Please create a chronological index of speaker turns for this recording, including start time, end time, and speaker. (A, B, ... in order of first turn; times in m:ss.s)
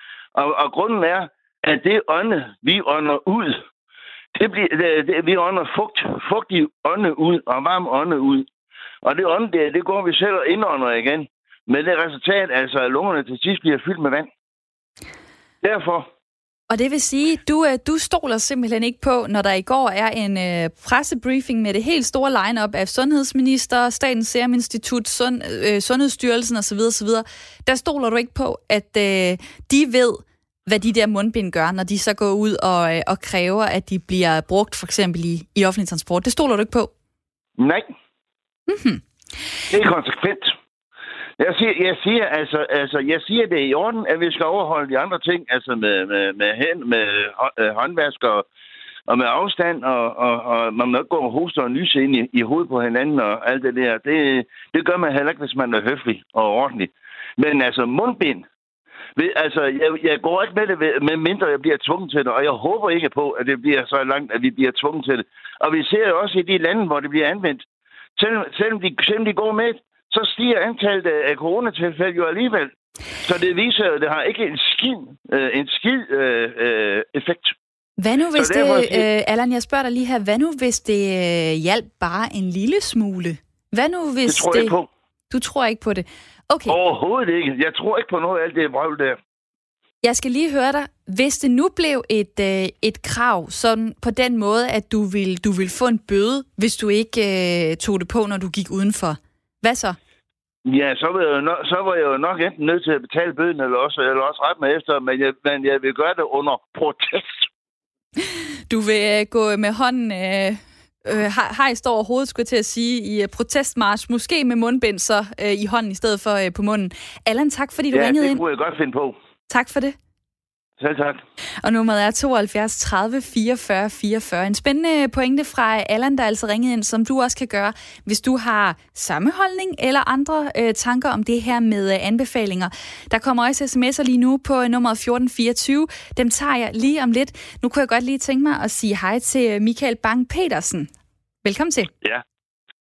0:00.4-0:03.6 A
0:04.4-0:08.5 A
0:09.0-0:14.3 A
0:15.6-0:16.1 A
0:16.7-0:36.9 B
0:37.6-0:37.9 A
0:38.7-0:39.0 B
0:39.7-0:40.5 A
0:41.4-0:48.4 A
0:49.1-0:58.4 A
0:59.2-1:07.6 A
1:08.2-1:12.7 A
1:13.2-1:17.6 A
1:18.0-1:24.8 B
1:18.4-1:19.1 A
1:24.3-1:24.9 A
1:25.3-1:26.8 B
1:26.7-1:29.2 A
1:30.0-1:40.0 B
1:40.7-1:47.4 A
1:48.7-1:58.4 B
1:57.9-1:59.2 A
1:59.5-2:00.0 B
2:00.8-2:01.2 A
2:01.6-2:20.9 B
2:21.4-2:21.9 B